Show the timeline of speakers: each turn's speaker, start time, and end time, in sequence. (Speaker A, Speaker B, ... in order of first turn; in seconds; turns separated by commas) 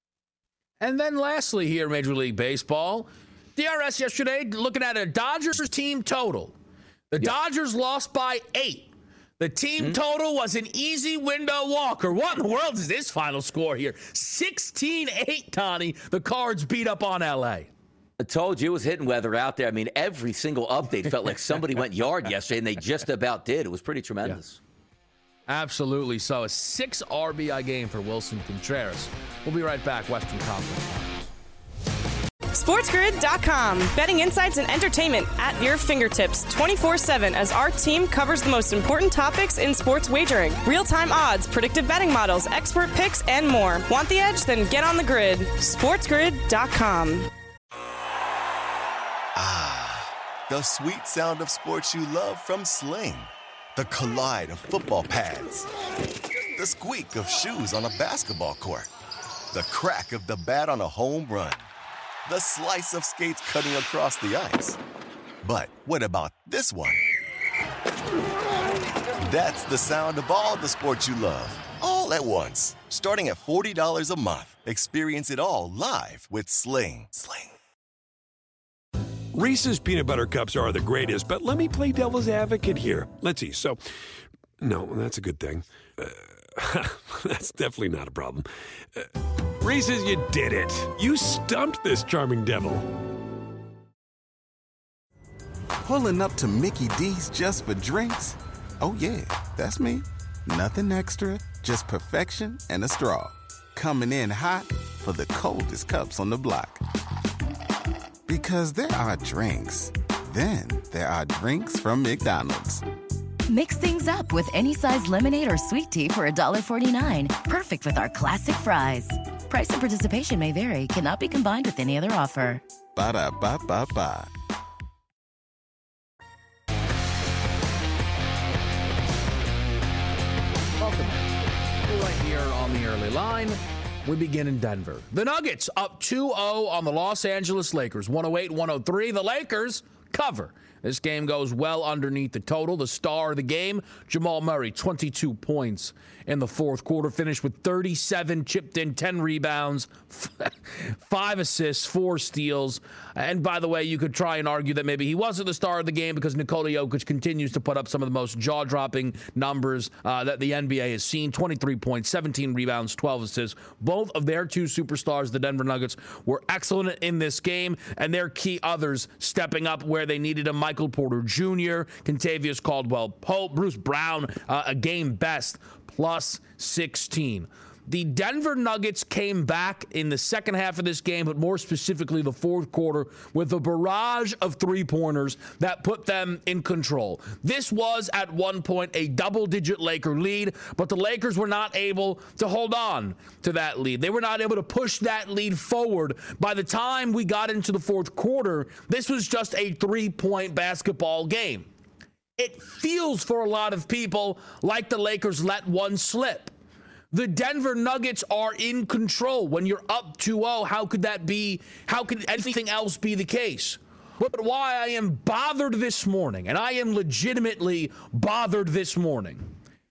Speaker A: 0.8-6.5, Speaker A: 7.1-17.7, Speaker B: 18.2-24.6, Speaker A: 25.5-31.3, Speaker C: 32.5-47.3, Speaker D: 49.4-55.7, Speaker D: 56.6-58.9, Speaker D: 59.5-61.7, Speaker D: 62.3-64.8, Speaker D: 65.4-67.0, Speaker D: 69.2-77.5, Speaker E: 79.3-83.8, Speaker E: 84.6-93.0, Speaker F: 95.8-106.8, Speaker F: 108.3-112.8, Speaker G: 113.5-122.6, Speaker F: 122.9-124.3, Speaker A: 130.8-131.3, Speaker A: 131.9-201.7, Speaker A: 202.4-206.5, Speaker A: 207.1-219.5